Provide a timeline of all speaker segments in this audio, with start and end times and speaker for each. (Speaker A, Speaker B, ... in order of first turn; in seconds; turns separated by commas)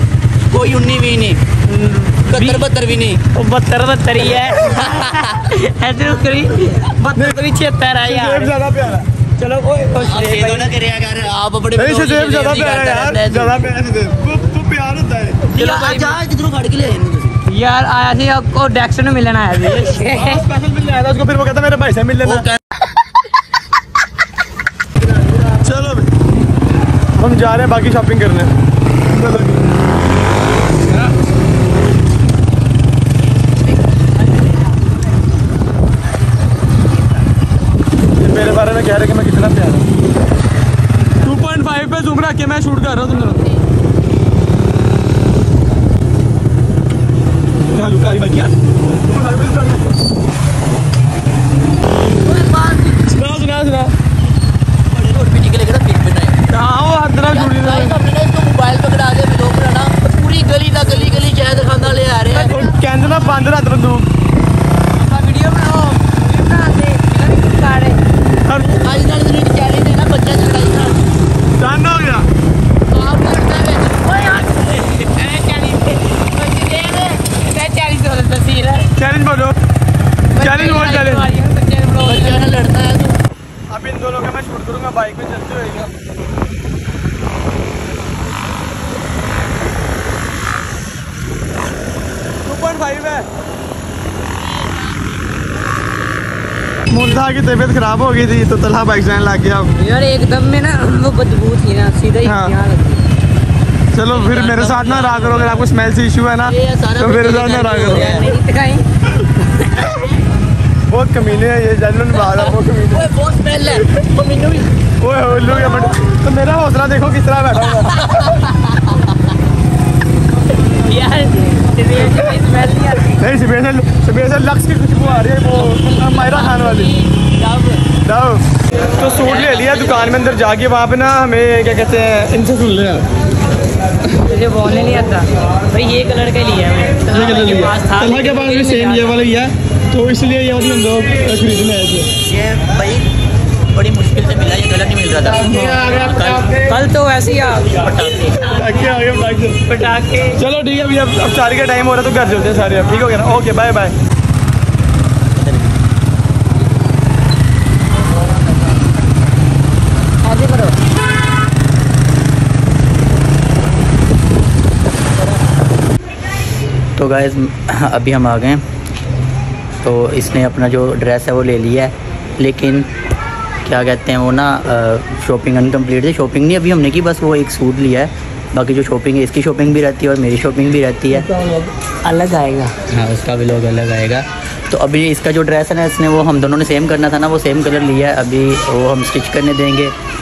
Speaker A: 0.5-1.4, Speaker B: 1.7-2.6, Speaker A: 2.3-3.2, Speaker B: 3.3-8.5, Speaker A: 4.7-5.3, Speaker C: 8.0-9.1, Speaker B: 9.4-10.7, Speaker A: 9.9-13.6, Speaker C: 11.8-15.4, Speaker A: 15.5-17.4, Speaker B: 15.5-16.2, Speaker B: 17.5-20.4, Speaker C: 20.0-22.5, Speaker A: 22.2-22.6, Speaker C: 25.3-26.1, Speaker C: 27.1-28.5, Speaker C: 29.1-29.6, Speaker C: 38.2-39.9, Speaker C: 41.2-43.4, Speaker C: 47.7-49.9, Speaker A: 52.2-53.1, Speaker C: 53.1-53.9, Speaker A: 54.9-56.4, Speaker C: 56.5-58.0, Speaker A: 57.3-62.5, Speaker C: 62.4-64.1, Speaker B: 65.0-68.0, Speaker C: 68.5-68.8, Speaker A: 68.6-71.1, Speaker C: 71.6-72.3, Speaker A: 73.0-74.5, Speaker B: 73.1-73.5, Speaker B: 74.0-78.9, Speaker C: 79.0-79.5, Speaker B: 80.3-82.5, Speaker C: 80.4-81.2, Speaker A: 82.0-83.2, Speaker C: 83.7-85.9, Speaker C: 92.4-93.3, Speaker C: 96.9-99.7, Speaker B: 99.7-103.0, Speaker C: 102.2-102.5, Speaker C: 103.9-108.1, Speaker A: 104.1-105.7, Speaker A: 106.4-108.3, Speaker B: 107.8-108.8, Speaker B: 109.4-109.9, Speaker C: 110.9-113.1, Speaker A: 112.9-114.7, Speaker C: 115.0-118.1, Speaker B: 120.6-123.2, Speaker C: 123.2-127.0, Speaker B: 125.6-127.8, Speaker C: 127.9-128.4, Speaker C: 129.0-133.1, Speaker B: 129.2-129.9, Speaker B: 134.2-139.3, Speaker C: 137.1-142.1, Speaker A: 142.2-143.1, Speaker A: 143.7-146.6, Speaker C: 145.4-146.4, Speaker B: 146.6-148.1, Speaker A: 147.7-148.4, Speaker C: 148.4-149.6, Speaker B: 149.7-150.4, Speaker C: 150.4-153.9, Speaker A: 155.3-155.8, Speaker B: 160.2-160.8, Speaker A: 167.0-168.6, Speaker A: 169.8-172.9, Speaker A: 173.6-181.2, Speaker B: 181.1-182.7, Speaker A: 182.9-189.9